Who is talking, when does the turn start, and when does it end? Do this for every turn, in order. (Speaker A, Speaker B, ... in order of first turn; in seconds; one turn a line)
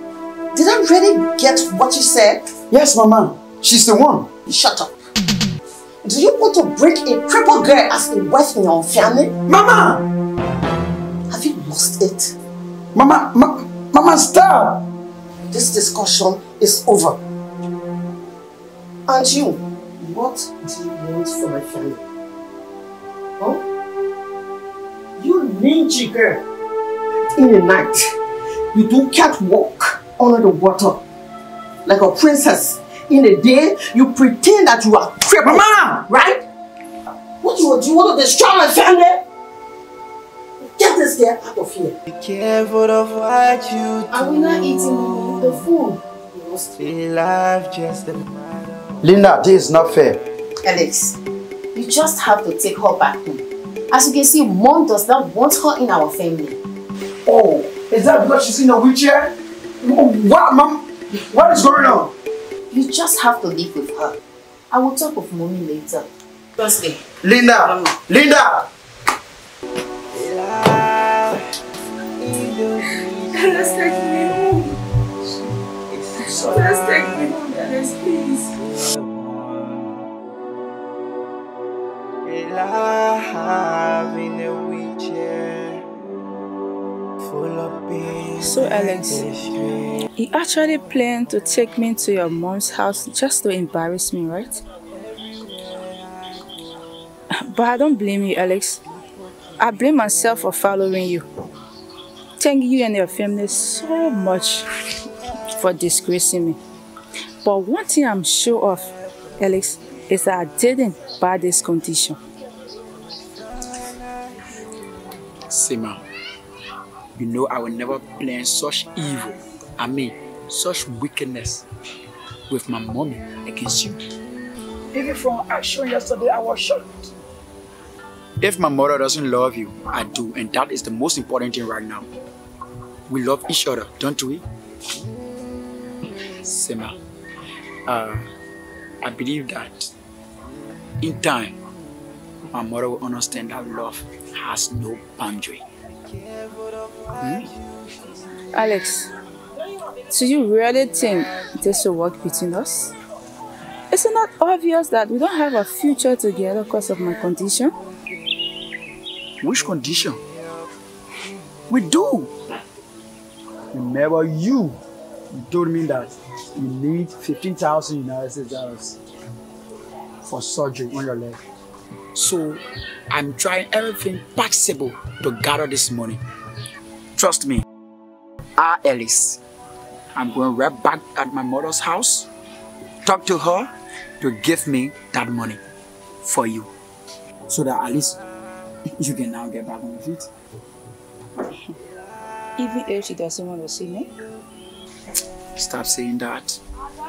Speaker A: 0.5-2.5
Speaker B: 2.7-4.3
Speaker A: 4.4-4.9
Speaker A: 6.0-9.3
Speaker B: 9.5-10.0
Speaker A: 11.3-12.3
Speaker B: 12.9-14.8
Speaker A: 15.5-17.2
Speaker A: 19.1-22.0
Speaker A: 25.2-26.4
Speaker A: 27.4-28.1
Speaker A: 28.7-31.0
Speaker A: 31.9-36.4
Speaker B: 35.4-36.1
Speaker A: 37.4-39.2
Speaker A: 40.8-42.0
Speaker C: 42.0-45.6
Speaker D: 44.1-46.6
Speaker C: 46.8-49.4
Speaker B: 49.0-50.2
Speaker D: 50.6-51.1
Speaker D: 51.7-56.6
Speaker B: 57.2-62.1
Speaker D: 62.7-64.2
Speaker D: 64.7-66.0
Speaker D: 66.6-67.0
Speaker B: 67.2-68.7
Speaker C: 70.1-71.4
Speaker C: 72.2-74.2
Speaker E: 73.3-74.7
Speaker C: 75.9-77.3
Speaker E: 76.2-78.5
Speaker C: 78.5-80.0
Speaker C: 82.2-85.8
Speaker C: 87.2-90.0
Speaker E: 88.4-89.2
Speaker E: 90.2-94.6
Speaker C: 94.9-96.3
Speaker E: 97.4-98.8
Speaker E: 99.6-101.2
Speaker E: 102.4-104.7
Speaker E: 105.5-106.6
Speaker E: 107.4-112.2
Speaker B: 115.5-116.0
Speaker B: 117.2-121.7
Speaker B: 122.5-124.0
Speaker B: 124.9-127.1
Speaker B: 128.4-132.1
Speaker B: 133.1-134.4
Speaker B: 136.4-137.0
Speaker B: 137.8-138.2
Speaker B: 139.0-139.9
Speaker B: 141.0-141.6
Speaker B: 142.5-145.6
Speaker C: 146.1-147.5
Speaker E: 148.5-149.1
Speaker E: 150.1-152.9
Speaker E: 153.9-157.7
Speaker B: 159.4-160.2
Speaker B: 161.7-162.3
Speaker B: 163.7-164.8
Speaker B: 165.3-169.0
Speaker B: 170.2-171.4
Speaker B: 172.1-176.2
Speaker B: 177.2-177.6
Speaker B: 178.6-179.4
Speaker B: 180.1-182.3
Speaker B: 183.0-185.6
Speaker B: 186.2-186.7
Speaker B: 187.5-188.2
Speaker B: 189.0-190.3
Speaker E: 192.6-194.1
Speaker B: 195.6-196.6